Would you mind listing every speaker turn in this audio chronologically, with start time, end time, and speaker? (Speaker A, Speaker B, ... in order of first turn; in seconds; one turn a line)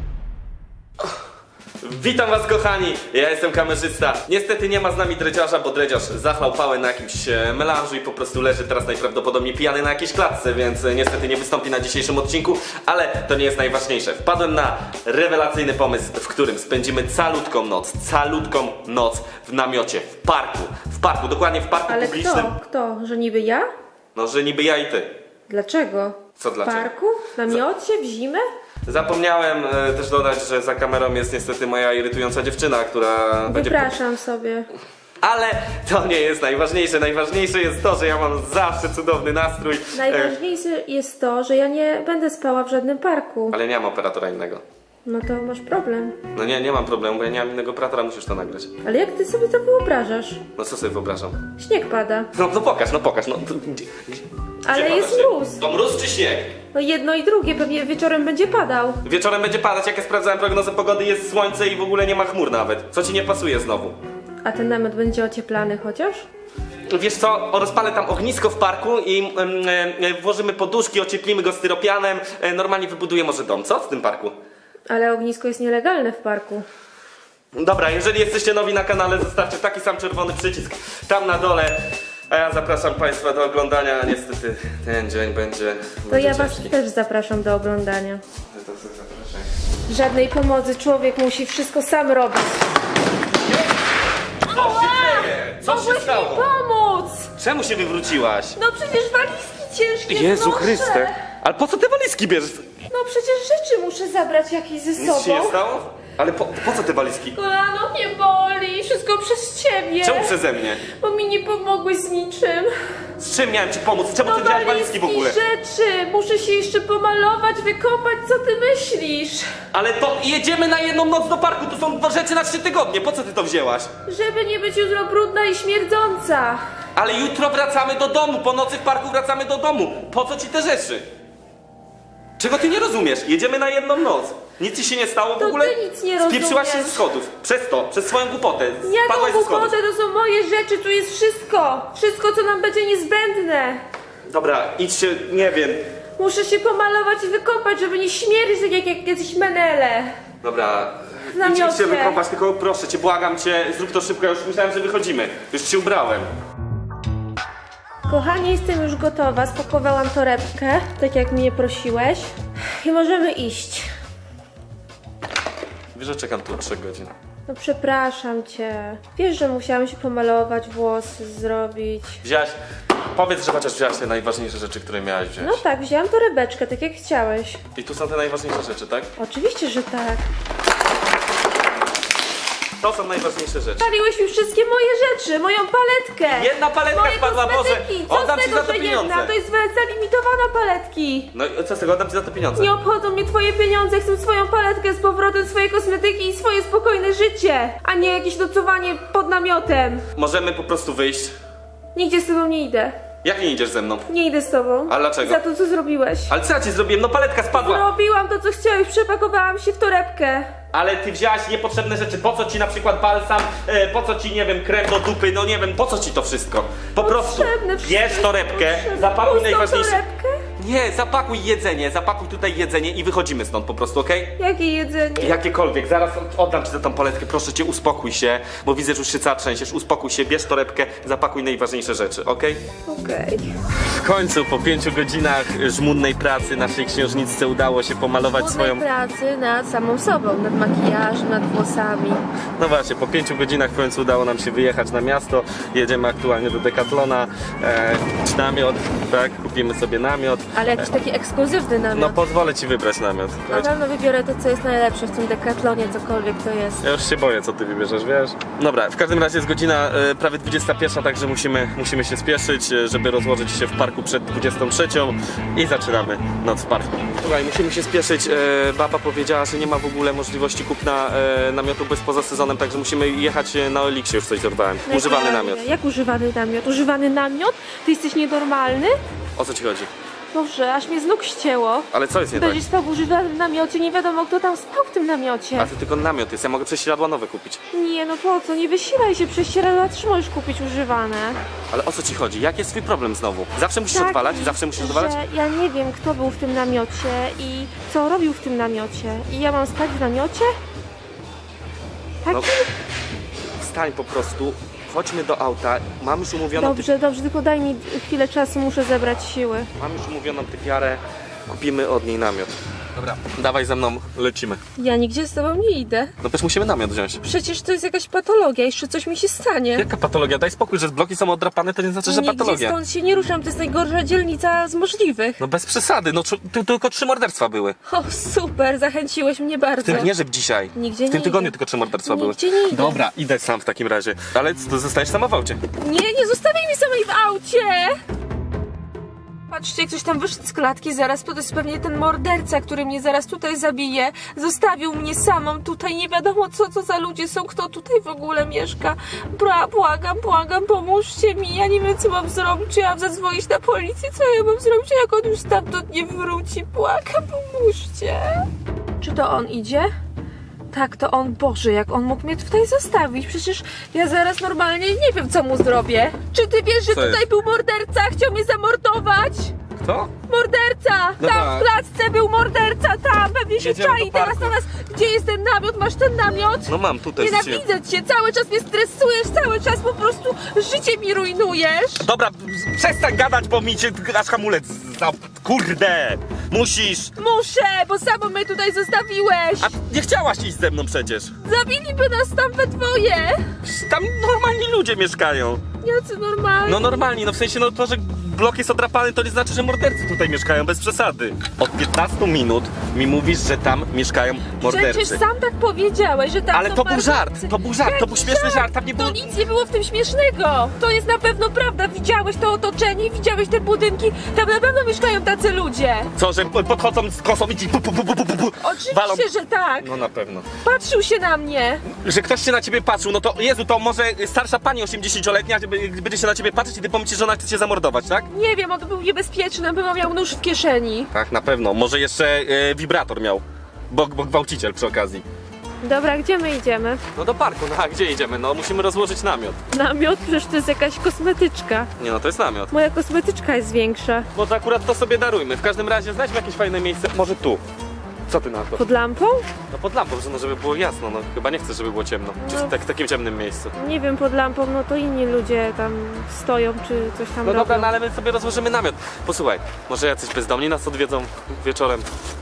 Speaker A: 1.8-22.5
Speaker B: 21.9-23.7
Speaker A: 24.1-25.1
Speaker B: 25.5-28.4
Speaker A: 26.4-26.9
Speaker A: 28.9-34.0
Speaker B: 33.5-34.7
Speaker A: 35.2-40.3
Speaker B: 39.9-43.6
Speaker A: 43.5-44.6
Speaker B: 45.0-46.2
Speaker A: 46.3-48.7
Speaker B: 48.8-50.4
Speaker A: 50.6-51.4
Speaker B: 51.6-52.3
Speaker A: 52.3-56.5
Speaker B: 54.6-55.6
Speaker B: 56.7-59.0
Speaker A: 59.0-64.0
Speaker B: 64.4-66.2
Speaker A: 66.9-74.4
Speaker B: 74.9-76.7
Speaker A: 77.5-86.7
Speaker B: 86.1-88.2
Speaker A: 88.5-89.5
Speaker B: 89.9-92.6
Speaker B: 94.5-97.3
Speaker A: 94.5-96.5
Speaker A: 97.4-98.6
Speaker B: 98.6-101.2
Speaker A: 100.1-102.7
Speaker B: 102.9-105.6
Speaker A: 105.0-107.4
Speaker B: 107.3-110.3
Speaker A: 110.0-110.8
Speaker B: 110.9-112.7
Speaker A: 113.2-115.4
Speaker B: 114.2-119.5
Speaker A: 119.7-123.9
Speaker B: 124.1-126.6
Speaker A: 127.0-131.1
Speaker A: 132.4-139.8
Speaker B: 135.4-137.0
Speaker B: 138.8-143.8
Speaker A: 144.3-145.8
Speaker B: 146.2-150.2
Speaker A: 150.4-156.3
Speaker B: 151.3-152.2
Speaker B: 158.1-163.9
Speaker A: 165.9-167.1
Speaker B: 167.5-172.2
Speaker A: 172.2-172.6
Speaker A: 173.1-175.6
Speaker B: 175.4-177.6
Speaker A: 177.8-179.1
Speaker B: 179.2-180.2
Speaker A: 182.8-183.9
Speaker B: 183.8-191.3
Speaker A: 186.3-189.3
Speaker A: 191.3-192.7
Speaker B: 192.6-200.0
Speaker A: 200.2-201.4
Speaker B: 201.9-203.0
Speaker A: 203.2-204.1
Speaker B: 204.1-206.3
Speaker A: 204.9-205.4
Speaker A: 206.3-207.9
Speaker B: 207.5-210.5
Speaker A: 210.7-220.0
Speaker B: 217.0-220.4
Speaker A: 220.6-224.4
Speaker B: 224.4-225.4
Speaker A: 225.2-232.6
Speaker B: 232.9-233.5
Speaker A: 233.8-238.8
Speaker B: 238.3-242.2
Speaker A: 242.6-250.9
Speaker B: 250.5-252.2
Speaker A: 251.9-253.7
Speaker B: 253.5-256.9
Speaker A: 256.8-275.7
Speaker B: 274.9-279.0
Speaker A: 279.4-279.9
Speaker B: 280.3-285.7
Speaker A: 281.9-282.6
Speaker A: 285.6-287.6
Speaker B: 287.7-291.4
Speaker A: 291.7-295.2
Speaker B: 293.9-300.5
Speaker B: 302.2-302.7
Speaker A: 302.3-302.5
Speaker A: 303.6-306.9
Speaker B: 306.6-309.7
Speaker A: 309.8-314.6
Speaker B: 314.8-316.1
Speaker A: 316.2-317.2
Speaker B: 317.2-319.9
Speaker A: 319.8-322.8
Speaker B: 322.1-325.4
Speaker A: 325.4-327.8
Speaker B: 327.9-330.1
Speaker A: 329.8-335.6
Speaker B: 330.7-333.0
Speaker B: 335.8-338.0
Speaker B: 339.5-358.5
Speaker B: 359.0-359.9
Speaker B: 360.7-369.5
Speaker A: 366.9-367.2
Speaker A: 369.8-370.1
Speaker B: 370.3-382.1
Speaker A: 371.2-371.7
Speaker A: 373.6-374.6
Speaker A: 376.7-377.6
Speaker A: 382.0-387.1
Speaker B: 387.2-389.7
Speaker A: 389.6-391.3
Speaker B: 391.4-393.4
Speaker A: 393.6-395.6
Speaker B: 395.8-397.0
Speaker A: 396.7-405.2
Speaker B: 404.6-416.1
Speaker A: 406.5-409.2
Speaker A: 416.2-419.3
Speaker B: 418.6-419.9
Speaker A: 419.8-420.5
Speaker B: 420.6-421.8
Speaker A: 421.9-428.3
Speaker B: 428.3-431.1
Speaker A: 431.1-435.2
Speaker B: 435.8-437.0
Speaker A: 437.1-439.6
Speaker B: 439.7-441.9
Speaker A: 442.0-442.7
Speaker B: 442.7-444.3
Speaker A: 444.3-447.6
Speaker A: 448.3-448.8
Speaker B: 448.8-449.5
Speaker A: 449.7-453.7
Speaker B: 452.4-452.8
Speaker B: 453.8-457.9
Speaker A: 457.4-462.1